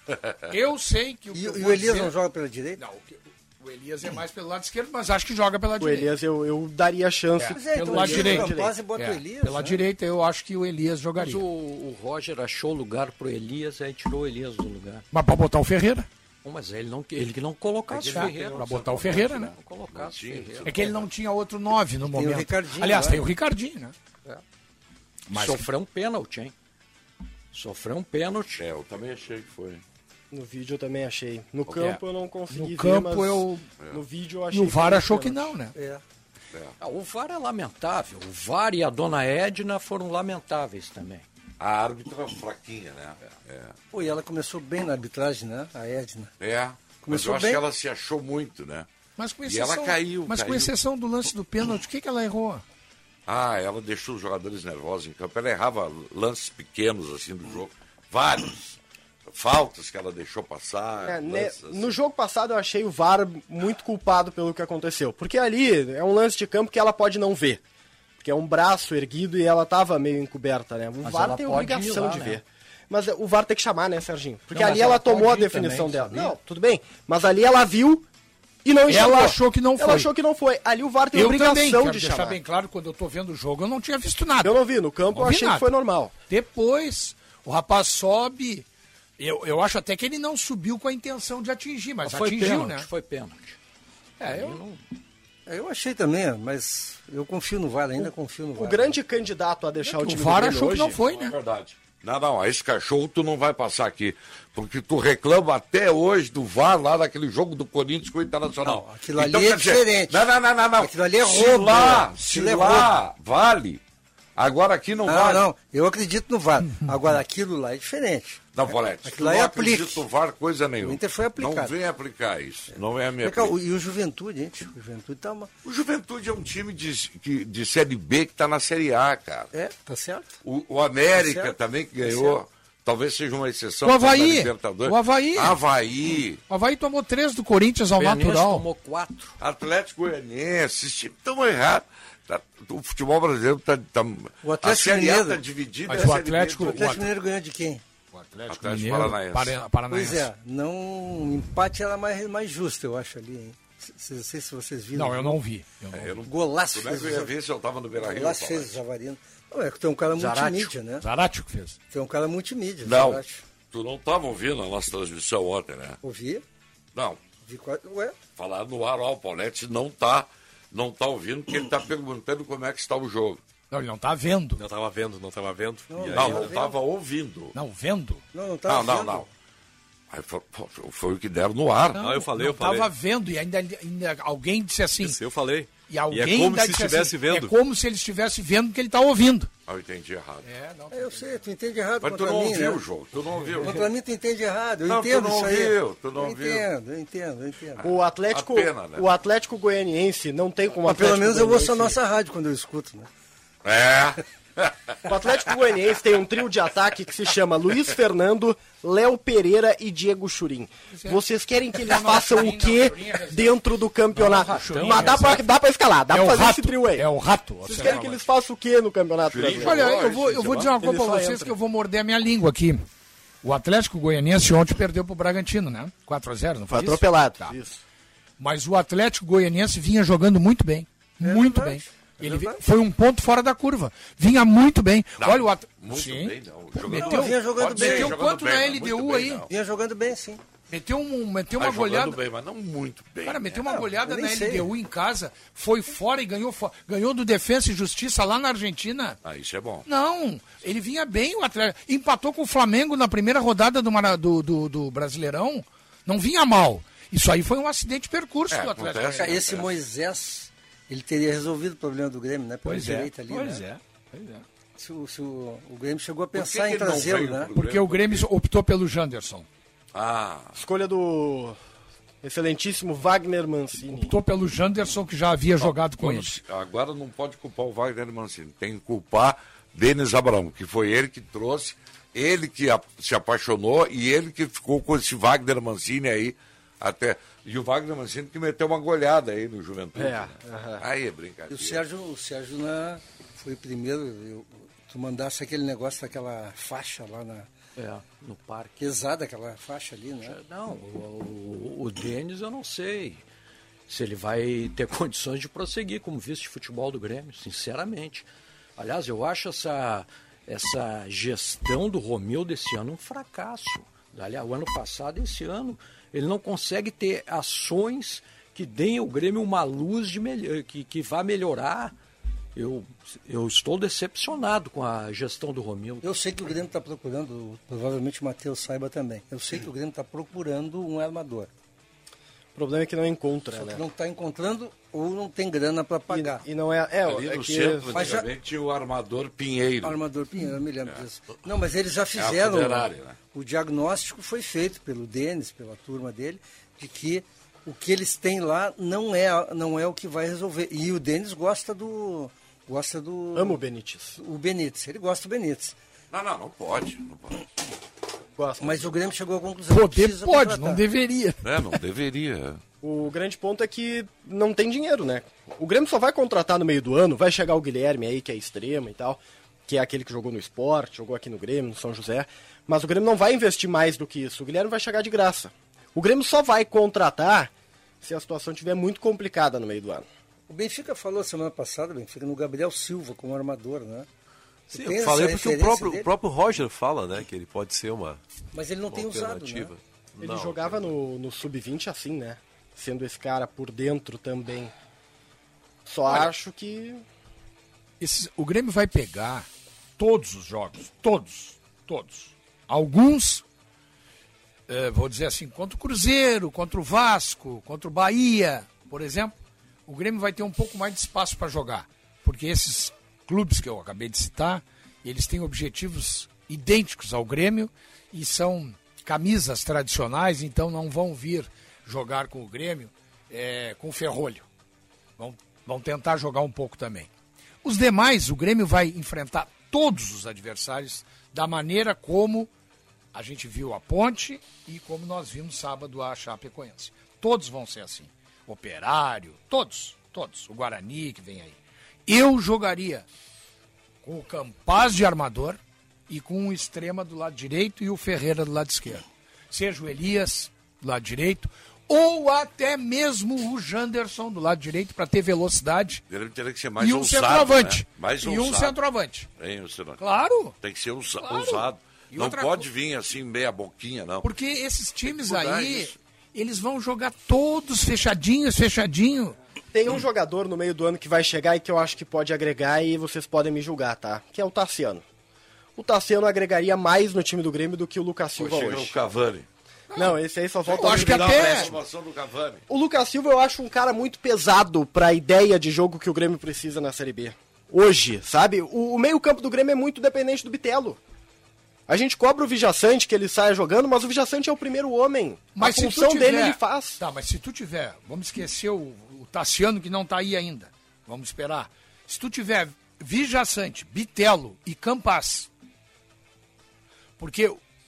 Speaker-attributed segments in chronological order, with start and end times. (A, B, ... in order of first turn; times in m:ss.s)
0:00.5-0:02.1 A
0:01.3-0:02.8 B
0:02.8-0:06.1 A
0:05.8-0:08.8 C
0:07.4-0:11.4 A
0:07.5-0:09.8 B
0:11.2-0:15.0 D
0:15.1-0:16.1 A
0:16.4-0:20.8 D
0:17.9-0:21.1 E
0:18.1-0:19.5 A
0:20.6-0:23.9 A
0:22.1-0:23.2 B
0:25.3-0:25.6 A
0:25.3-0:26.5 D
0:27.5-0:28.6 D
0:28.6-0:29.8 E
0:30.3-0:35.5 C
0:31.7-0:31.9 E
0:32.5-0:33.7 A
0:34.5-0:35.7 A
0:35.7-0:36.0 B
0:36.8-0:41.2 D
0:41.6-0:43.8 E
0:43.9-0:46.3 B
0:46.4-0:48.9 E
0:47.0-0:47.6 B
0:49.2-0:52.6 A
0:49.4-0:50.7 E
0:53.3-0:58.8 E
0:59.3-1:01.9 E
1:01.0-1:07.6 C
1:08.2-1:18.0 C
1:11.0-1:12.4 D
1:14.5-1:16.2 A
1:14.7-1:16.0 D
1:18.6-1:22.4 C
1:18.9-1:20.1 A
1:21.1-1:24.6 A
1:24.4-1:26.1 C
1:25.1-1:25.7 A
1:26.3-1:28.6 A
1:29.2-1:32.9 A
1:32.0-1:33.6 D
1:34.2-1:34.6 A
1:34.2-1:34.8 D
1:35.4-1:38.9 B
1:38.0-1:41.0 C
1:39.8-1:41.3 A
1:40.9-1:53.8 E
1:48.6-1:53.0 B
1:54.4-1:55.5 E
1:55.0-2:00.0 B
1:58.5-2:03.5 E
2:00.8-2:01.8 B
2:02.7-2:05.5 B
2:05.6-2:09.5 E
2:09.5-2:10.4 B
2:10.4-2:16.4 E
2:11.1-2:12.4 B
2:13.8-2:15.6 A
2:16.5-2:18.6 A
2:18.0-2:19.4 D
2:19.4-2:27.1 E
2:24.4-2:27.8 B
2:25.9-2:27.1 A
2:28.1-2:30.3 A
2:28.5-2:29.6 E
2:29.9-2:35.4 B
2:34.9-2:36.2 A
2:35.9-2:38.8 E
2:36.2-2:37.3 B
2:38.0-2:41.0 B
2:40.2-2:40.7 C
2:41.0-2:41.8 A
2:41.9-2:43.4 B
2:42.8-2:46.0 E
2:46.0-2:46.4 B
2:47.4-2:48.2 B
2:48.4-2:53.4 E
2:53.7-2:54.6 A
2:54.6-2:56.6 F
2:55.9-2:56.8 B
2:56.1-2:57.5 E
2:57.5-2:58.2 A
2:58.3-2:59.3 B
2:58.6-2:59.3 E
3:00.1-3:02.1 E
3:01.9-3:05.2 A
3:02.0-3:02.9 F
3:05.0-3:07.6 F
3:05.9-3:09.5 A
3:09.7-3:10.5 E
3:10.4-3:11.4 A
3:10.9-3:12.8 B
3:12.0-3:13.9 E
3:13.6-3:17.8 B
3:14.8-3:16.7 E
3:17.8-3:22.0 C
3:18.3-3:19.0 E
3:20.8-3:23.1 B
3:23.6-3:25.0 E
3:25.1-3:37.1 C
3:30.9-3:31.2 A
3:31.7-3:33.6 A
3:34.1-3:35.4 A
3:34.4-3:35.2 D
3:36.1-3:38.2 A
3:37.6-3:39.9 C
3:39.3-3:40.8 E
3:39.6-3:42.8 A
3:40.8-3:41.6 C
3:43.4-3:47.5 A
3:46.7-3:47.8 C
3:48.4-3:59.4 A
3:51.2-3:52.6 B
3:55.2-3:59.5 E
3:56.9-3:58.2 B
3:59.5-4:00.4 B
4:00.7-4:02.2 A
4:01.6-4:03.6 E
4:03.2-4:09.2 A
4:03.7-4:04.7 B
4:09.2-4:09.8 E
4:09.8-4:19.3 A
4:18.5-4:19.7 E
4:19.1-4:23.6 B
4:22.6-4:24.4 A
4:24.8-4:27.5 B
4:26.3-4:28.3 E
4:27.5-4:29.5 A
4:29.9-4:30.5 E
4:30.5-4:31.6 C
4:32.2-4:34.1 C
4:33.9-4:36.4 A
4:35.6-4:51.8 E
4:50.0-4:50.8 C
4:51.5-4:57.5 B
4:57.8-4:58.8 D
4:58.8-5:00.4 B
5:00.2-5:03.2 D
5:03.9-5:08.2 D
5:08.8-5:21.9 D
5:22.5-5:26.1 D
5:26.0-5:31.5 B
5:32.5-5:33.8 C
5:33.5-5:36.4 B
5:36.1-5:38.2 C
5:37.0-5:40.0 E
5:37.9-5:38.3 B
5:39.8-5:53.6 B
5:42.1-5:43.2 E
5:53.3-5:54.2 C
5:54.2-5:55.8 B
5:56.1-5:57.4 E
5:58.4-5:58.9 C
5:58.6-6:00.8 B
5:59.7-6:01.5 A
6:01.4-6:02.6 E
6:02.8-6:17.5 C
6:18.0-6:20.1 C
6:20.5-6:24.1 B
6:24.7-6:26.1 B
6:24.7-6:28.2 F
6:28.5-6:29.7 B
6:28.9-6:30.9 F
6:30.2-6:34.7 C
6:35.8-6:37.0 C
6:38.0-6:39.5 A
6:40.0-6:43.4 A
6:44.7-7:04.4 A
7:05.2-7:07.1 A
7:07.6-7:12.5 A
7:13.1-7:23.0 A
7:24.0-7:36.0 A
7:36.1-7:38.8 E
7:36.8-7:39.3 A
7:39.4-7:40.0 E
7:40.0-7:40.5 A
7:40.6-7:44.3 E
7:41.2-7:42.7 A
7:44.2-7:49.4 A
7:45.0-7:46.0 E
7:49.7-7:55.0 C
7:55.8-7:59.0 C
7:58.4-7:59.4 E
7:59.9-8:01.7 A
7:59.9-8:01.8 C
8:00.6-8:02.6 E
8:02.7-8:11.0 C
8:11.9-8:17.0 C
8:15.5-8:25.5 A
8:27.2-8:27.6 A